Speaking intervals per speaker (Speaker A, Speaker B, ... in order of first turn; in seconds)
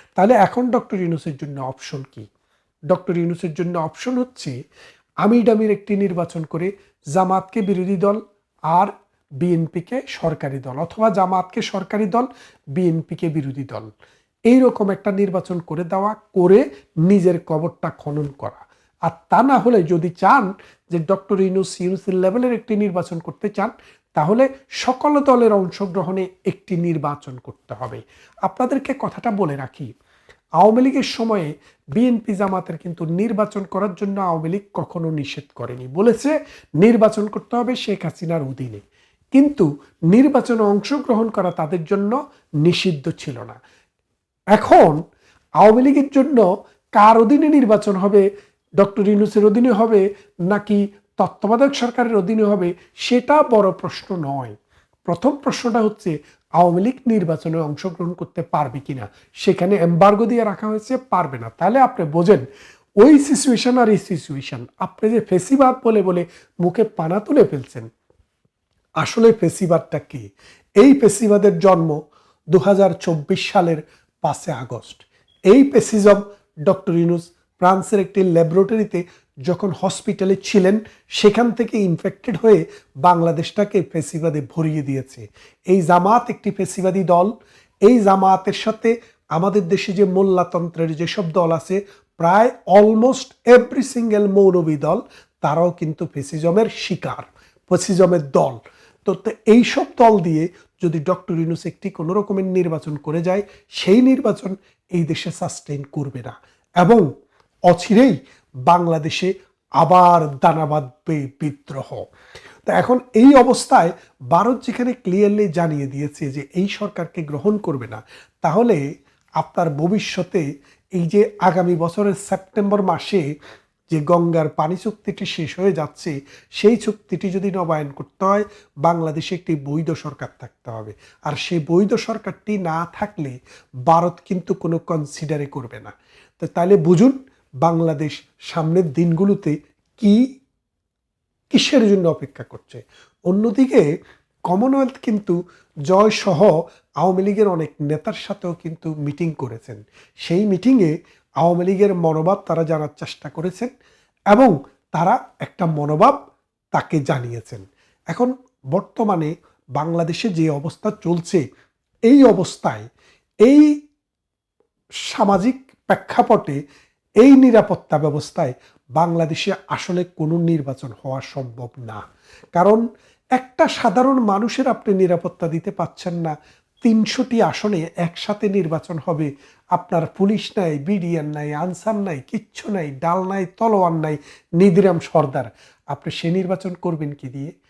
Speaker A: 0.2-2.3, 2.9-4.5, 5.2-8.2, 8.7-13.9, 14.5-29.9, 30.6-38.8, 39.4-43.6, 44.5-45.0, 45.6-48.2, 48.8-62.5, 63.0-67.9, 69.0-72.0, 72.5-87.3, 87.8-107.1, 107.7-112.0, 112.7-118.8, 119.4-123.3, 123.9-133.4, 133.9-140.2, 141.5-143.8, 144.5-145.4, 145.9-153.7, 154.3-156.2, 156.7-161.4, 162.1-162.8, 163.4-163.7, 165.1-166.6, 167.2-172.0, 172.6-172.8, 173.4-187.5